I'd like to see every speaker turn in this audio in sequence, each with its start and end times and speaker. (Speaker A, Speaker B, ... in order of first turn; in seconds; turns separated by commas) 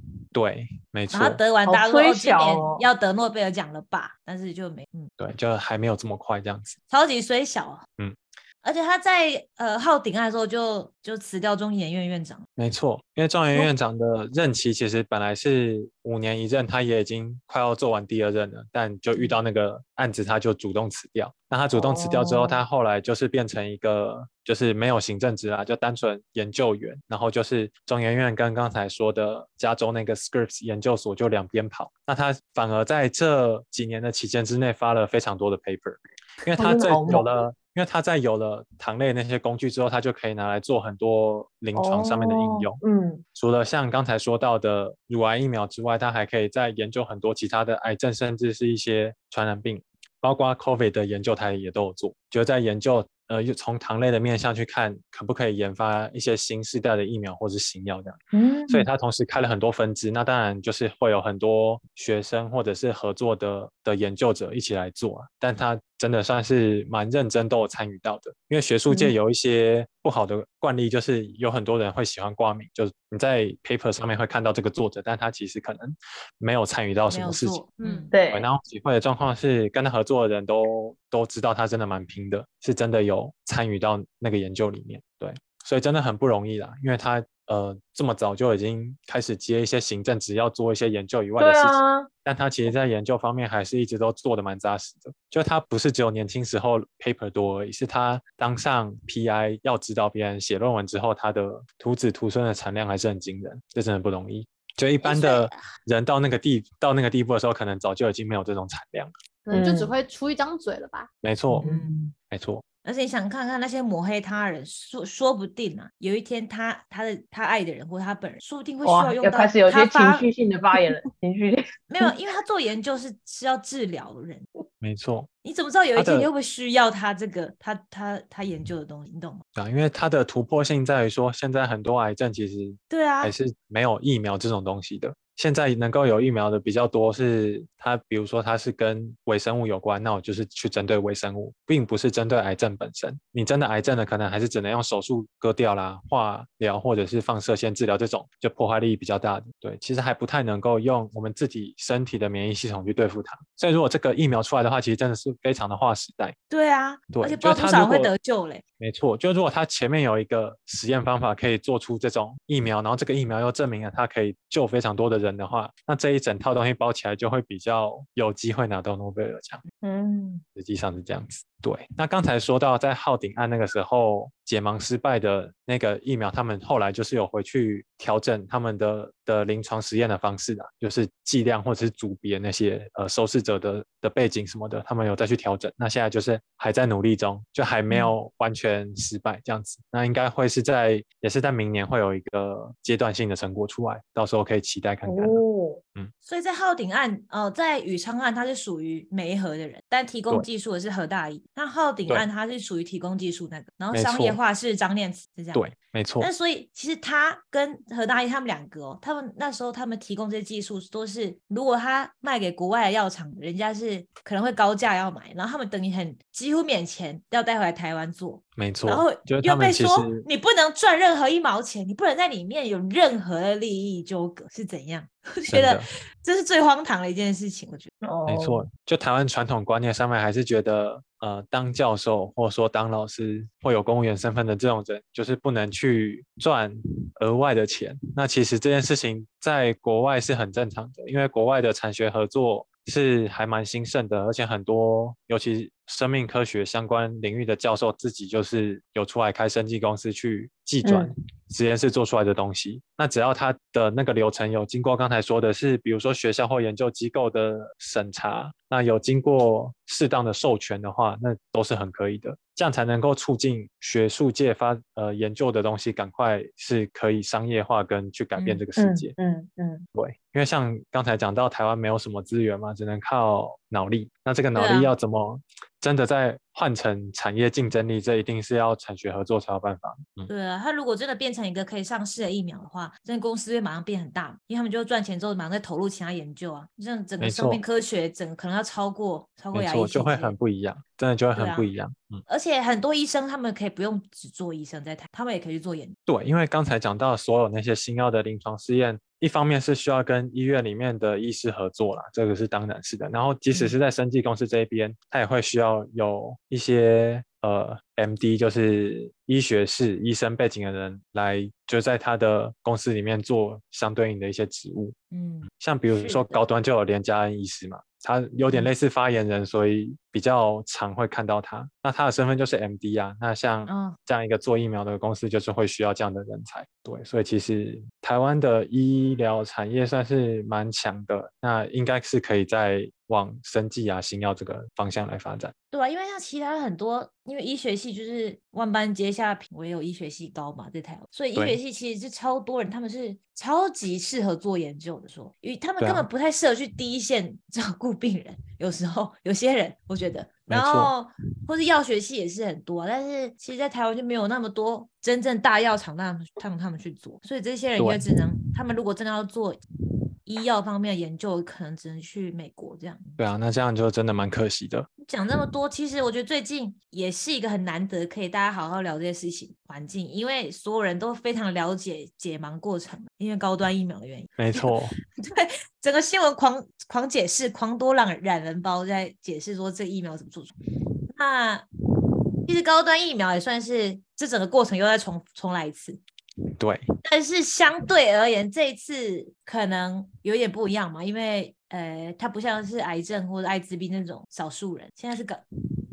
Speaker A: 0.3-1.4, Speaker B: 1.1-5.1, Speaker C: 1.6-2.8, Speaker A: 5.2-6.8, Speaker B: 6.9-7.8, Speaker B: 8.6-12.4, Speaker A: 12.6-42.8, Speaker C: 21.7-22.6, Speaker C: 36.5-37.3, Speaker C: 41.7-43.2, Speaker A: 43.3-77.6, Speaker C: 58.3-58.9, Speaker B: 77.1-78.1, Speaker D: 77.8-78.1, Speaker C: 78.1-78.5, Speaker A: 78.3-109.1, Speaker C: 91.4-92.1, Speaker B: 105.0-105.5, Speaker D: 109.5-111.1, Speaker C: 109.5-109.9, Speaker A: 111.2-112.6, Speaker B: 111.6-111.9, Speaker C: 111.6-112.1, Speaker B: 112.8-120.3, Speaker C: 118.8-122.1, Speaker B: 121.9-124.5, Speaker A: 124.8-125.3, Speaker B: 125.4-129.4, Speaker A: 125.9-126.3, Speaker A: 129.5-156.3, Speaker B: 132.9-133.3, Speaker B: 156.5-158.6, Speaker A: 157.1-158.1, Speaker A: 158.8-169.6, Speaker C: 169.8-170.4, Speaker A: 170.6-195.4, Speaker C: 195.0-195.8, Speaker B: 196.2-205.7, Speaker A: 203.9-204.4, Speaker A: 205.5-206.3, Speaker B: 206.2-227.9, Speaker A: 218.6-220.2, Speaker A: 225.5-225.8, Speaker C: 228.0-228.7, Speaker A: 228.3-269.1, Speaker C: 250.8-251.1, Speaker B: 268.4-268.6, Speaker C: 268.8-269.8, Speaker A: 269.9-280.3, Speaker B: 274.5-274.9, Speaker B: 280.3-290.4, Speaker A: 287.2-287.6, Speaker A: 289.5-292.2, Speaker B: 291.4-291.7, Speaker B: 292.3-295.9, Speaker A: 296.1-314.9, Speaker B: 303.5-303.8, Speaker B: 315.1-316.4, Speaker A: 315.5-335.5, Speaker B: 318.4-318.7, Speaker B: 323.7-324.0, Speaker B: 335.7-359.6, Speaker A: 341.3-341.6, Speaker A: 345.8-346.1, Speaker A: 350.5-350.9, Speaker A: 357.8-358.0, Speaker B: 360.2-363.2, Speaker A: 363.2-364.9, Speaker B: 365.0-380.5, Speaker A: 374.4-374.9, Speaker B: 381.1-381.6, Speaker B: 382.5-386.0, Speaker A: 386.6-386.9, Speaker B: 387.0-395.4